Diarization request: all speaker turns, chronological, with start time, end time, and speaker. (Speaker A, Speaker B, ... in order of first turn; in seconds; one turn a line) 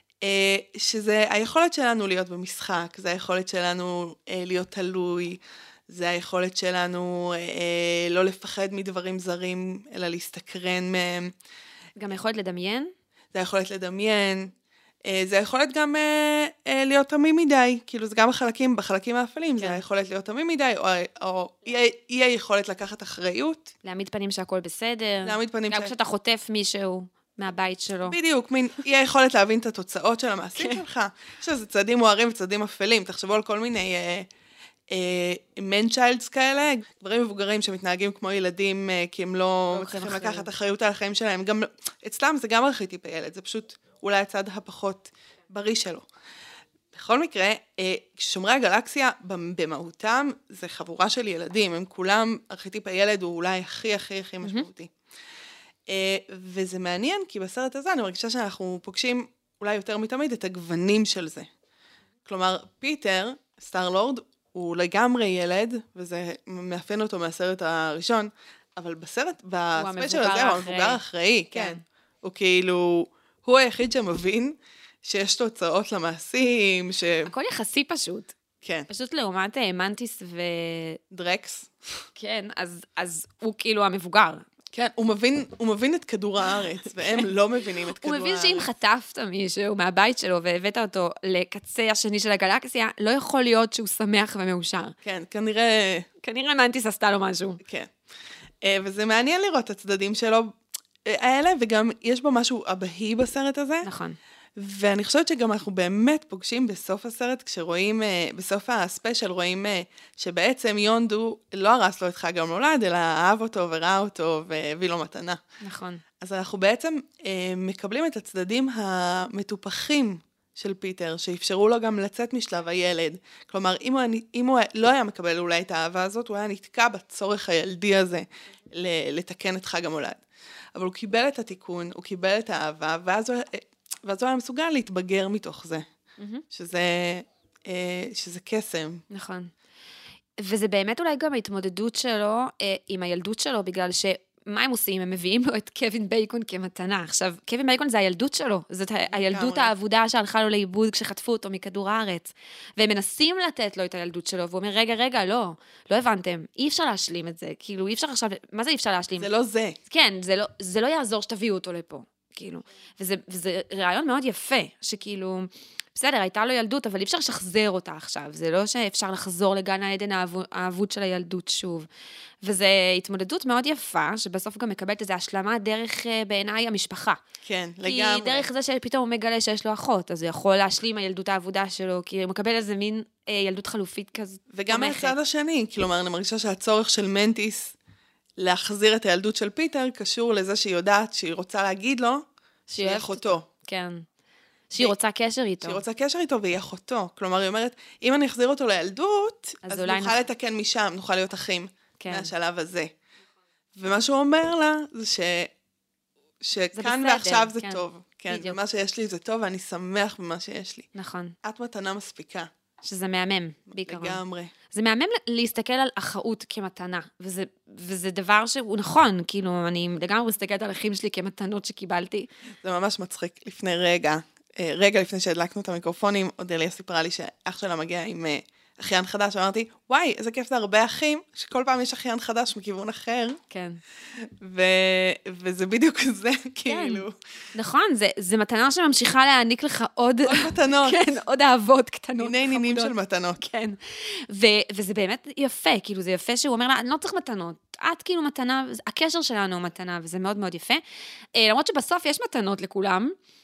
Speaker A: 0.2-11.3
Speaker B: 12.0-12.9
Speaker A: 13.3-14.5
Speaker A: 15.1-23.7
Speaker B: 23.8-28.2
Speaker A: 25.2-25.9
Speaker A: 28.1-34.3
Speaker A: 34.9-46.1
Speaker B: 39.7-40.5
Speaker A: 46.9-54.9
Speaker A: 55.9-61.5
Speaker A: 62.3-77.3
Speaker B: 69.8-71.8
Speaker B: 77.2-78.3
Speaker A: 78.6-78.9
Speaker B: 78.9-81.0
Speaker A: 81.1-81.7
Speaker B: 82.2-84.5
Speaker A: 84.7-88.7
Speaker B: 88.0-95.0
Speaker A: 95.0-96.1
Speaker B: 96.2-97.6
Speaker A: 97.6-97.9
Speaker A: 98.6-103.9
Speaker B: 103.8-104.2
Speaker A: 104.6-115.4
Speaker B: 115.6-116.0
Speaker A: 116.2-130.2
Speaker A: 130.8-135.8
Speaker B: 136.2-136.4
Speaker A: 136.5-139.0
Speaker B: 139.1-139.5
Speaker B: 140.4-159.3
Speaker A: 149.1-149.7
Speaker A: 159.2-159.8
Speaker B: 159.9-171.9
Speaker B: 172.4-177.2
Speaker A: 177.4-178.5
Speaker B: 177.8-185.1
Speaker A: 184.5-187.8
Speaker A: 188.4-192.2
Speaker B: 192.7-194.0
Speaker A: 192.8-193.5
Speaker B: 194.7-195.8
Speaker A: 195.6-202.9
Speaker B: 199.6-200.2
Speaker B: 202.0-202.3
Speaker A: 203.8-205.5
Speaker A: 206.4-210.9
Speaker B: 206.8-208.6
Speaker B: 210.9-211.3
Speaker A: 211.4-212.5
Speaker B: 212.8-222.3
Speaker A: 213.8-214.5
Speaker A: 222.6-233.4
Speaker B: 233.5-233.8
Speaker A: 234.2-237.2
Speaker B: 236.7-250.8
Speaker A: 240.2-241.1
Speaker A: 242.2-243.4
Speaker B: 251.3-253.2